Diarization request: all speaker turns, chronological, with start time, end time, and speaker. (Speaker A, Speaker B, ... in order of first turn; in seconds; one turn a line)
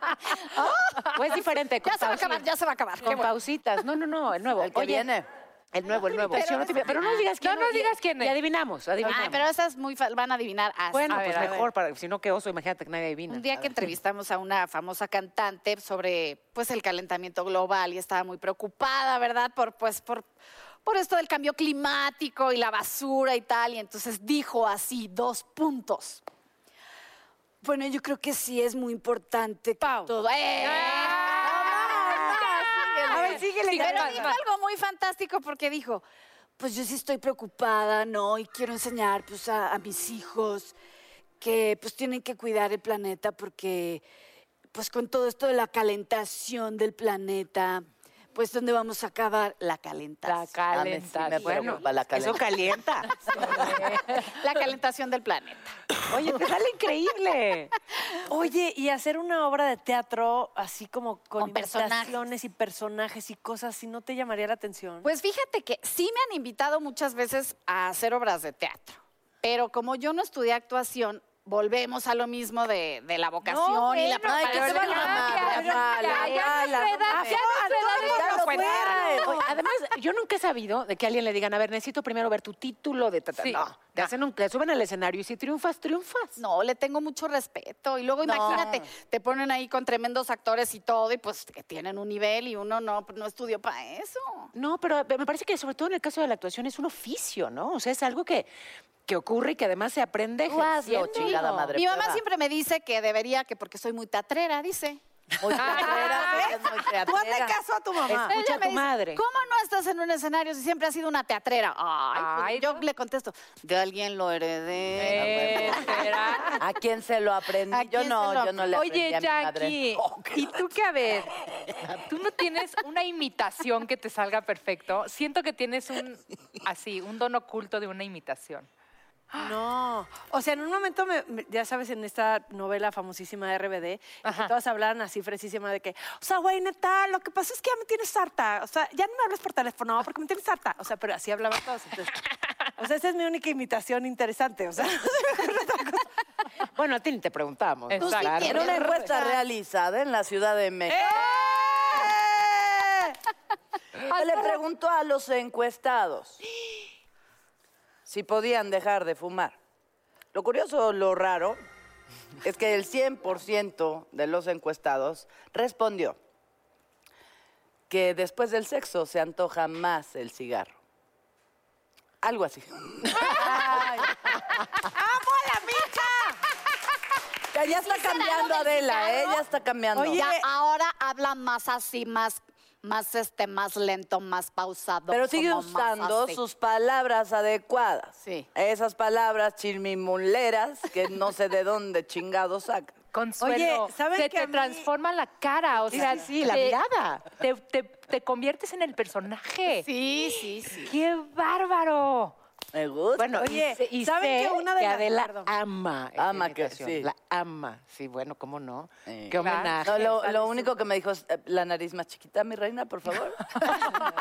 Speaker A: 0.4-3.3
Speaker B: 1.0-2.5
Speaker B: 3.0-5.1
Speaker C: 4.6-5.3
Speaker B: 5.7-9.5
Speaker A: 6.3-7.3
Speaker D: 7.4-8.4
Speaker A: 9.0-11.7
Speaker B: 10.9-13.7
Speaker D: 11.1-11.6
Speaker A: 13.3-20.3
Speaker A: 20.9-26.2
Speaker A: 27.6-36.0
Speaker D: 29.8-34.4
Speaker E: 33.1-34.3
Speaker A: 36.6-40.8
Speaker A: 41.4-44.0
Speaker A: 44.7-50.5
Speaker B: 50.3-54.2
Speaker C: 50.7-52.5
Speaker A: 53.5-55.8
Speaker B: 56.1-57.7
Speaker E: 58.3-65.1
Speaker A: 61.4-62.2
Speaker A: 65.0-77.0
Speaker D: 73.4-79.3
Speaker C: 74.2-79.4
Speaker E: 77.2-79.1
Speaker A: 77.5-79.0
Speaker B: 79.2-86.4
Speaker D: 83.4-84.1
Speaker A: 86.4-94.5
Speaker C: 88.2-88.9
Speaker B: 94.5-98.5
Speaker B: 99.1-101.8
Speaker C: 100.5-102.2
Speaker A: 101.2-105.0
Speaker C: 105.4-107.6
Speaker D: 105.6-106.5
Speaker E: 105.8-108.3
Speaker B: 108.0-109.2
Speaker A: 108.3-116.1
Speaker D: 112.2-112.8
Speaker D: 115.0-116.6
Speaker C: 115.1-115.7
Speaker C: 116.6-120.5
Speaker A: 117.7-118.8
Speaker D: 118.7-121.3
Speaker D: 122.0-128.7
Speaker E: 129.4-142.2
Speaker D: 134.2-134.5
Speaker E: 142.8-146.1
Speaker B: 146.8-149.0
Speaker D: 147.9-148.6
Speaker A: 148.0-149.3
Speaker C: 148.4-151.2
Speaker E: 150.9-153.1
Speaker C: 154.1-156.4
Speaker D: 154.1-154.4
Speaker C: 158.1-159.6
Speaker C: 160.3-161.6
Speaker C: 162.4-166.2
Speaker C: 167.9-170.8
Speaker C: 172.2-174.2
Speaker E: 173.4-173.8
Speaker E: 174.8-176.4
Speaker C: 177.5-180.2
Speaker A: 177.6-179.4
Speaker E: 179.9-180.5
Speaker A: 180.2-186.4
Speaker C: 185.1-193.0
Speaker D: 193.1-199.9
Speaker E: 193.4-194.9
Speaker E: 195.9-196.2
Speaker B: 195.9-197.2
Speaker A: 199.8-200.9
Speaker D: 200.8-202.4
Speaker C: 202.7-203.4
Speaker B: 203.2-210.7
Speaker E: 203.4-205.5
Speaker C: 206.2-207.1
Speaker C: 209.1-214.0
Speaker D: 209.4-209.8